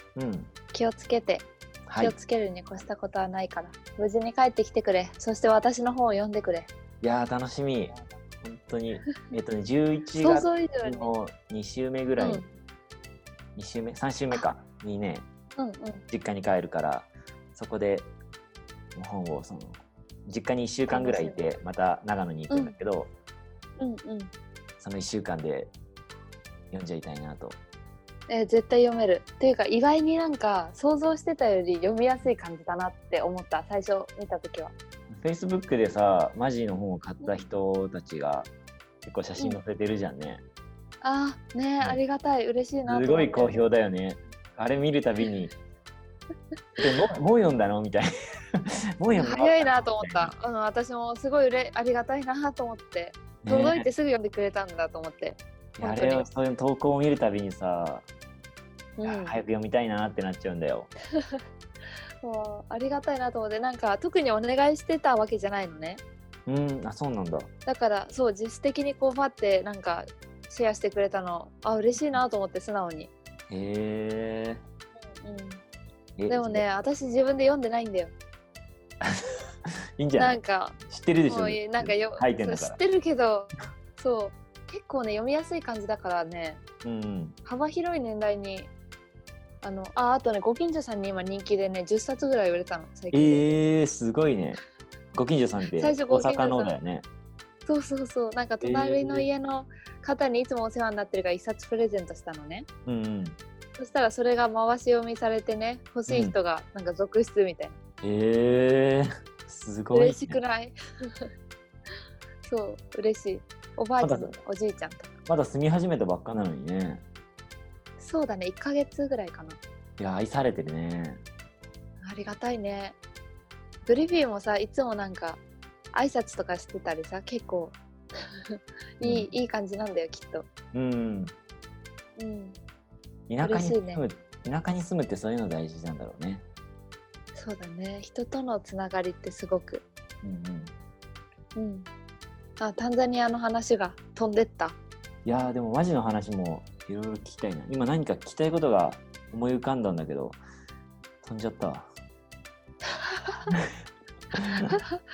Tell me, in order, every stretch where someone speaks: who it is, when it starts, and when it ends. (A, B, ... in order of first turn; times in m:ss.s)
0:00.2-0:00.5 A
0:00.7-0:01.5 B
0:01.9-0:02.2 A
0:02.0-0:06.7 B
0:07.0-0:12.4 A
0:10.2-0:11.1 B
0:12.2-0:12.5 B
0:13.6-0:15.3 A
0:15.6-0:16.0 B
0:16.1-0:18.1 A
0:19.0-0:23.1 A
0:20.9-0:21.4 B
0:23.8-0:24.3 B
0:24.8-0:25.7 A
0:26.7-0:27.6 A
0:28.3-0:34.7 B
0:35.1-0:38.5 A
0:39.0-0:40.4 A
0:41.0-0:43.6 B
0:42.9-0:45.5 A
0:46.8-0:48.1 A
0:49.0-0:50.4 A
0:49.1-0:56.3 B
0:53.4-0:53.9 A
0:55.8-0:58.1 A
0:59.0-0:59.4 B
0:59.0-1:00.9 A
1:02.2-1:06.0 B
1:06.5-1:07.5 A
1:07.7-1:13.1 B
1:12.0-1:12.3 A
1:13.5-1:14.6 A
1:15.0-1:15.6 B
1:16.2-1:16.7 A
1:16.3-1:18.1 B
1:20.0-1:22.8 A
1:20.2-1:26.6 B
1:26.8-1:27.4 A
1:27.4-1:28.7 B
1:29.6-1:33.5 B
1:33.1-1:34.6 A
1:35.1-1:37.1 A
1:35.8-1:36.8 B
1:37.7-1:42.7 B
1:38.6-1:39.3 A
1:42.9-1:43.4 A
1:43.8-1:47.8 B
1:46.1-1:46.3 A
1:48.0-1:50.4 A
1:49.9-1:51.3 B
1:52.4-1:55.1 B
1:54.0-1:54.4 A
1:55.3-1:57.0 A
1:58.0-1:59.6 B
2:00.0-2:01.2 A
2:02.0-2:03.0 B
2:03.8-2:05.4 B
2:05.9-2:07.8 B
2:08.5-2:10.5 B
2:09.0-2:09.3 A
2:10.7-2:11.3 A
2:12.2-2:12.6 B
2:13.3-2:16.4 A
2:13.4-2:14.0 B
2:17.4-2:19.8 B
2:20.2-2:20.7 A
2:21.6-2:21.9 B
2:22.6-2:24.8 B
2:25.2-2:30.4 A
2:31.2-2:31.9 A
2:33.2-2:33.5 B
2:34.4-2:34.8 A
2:34.5-2:35.0 B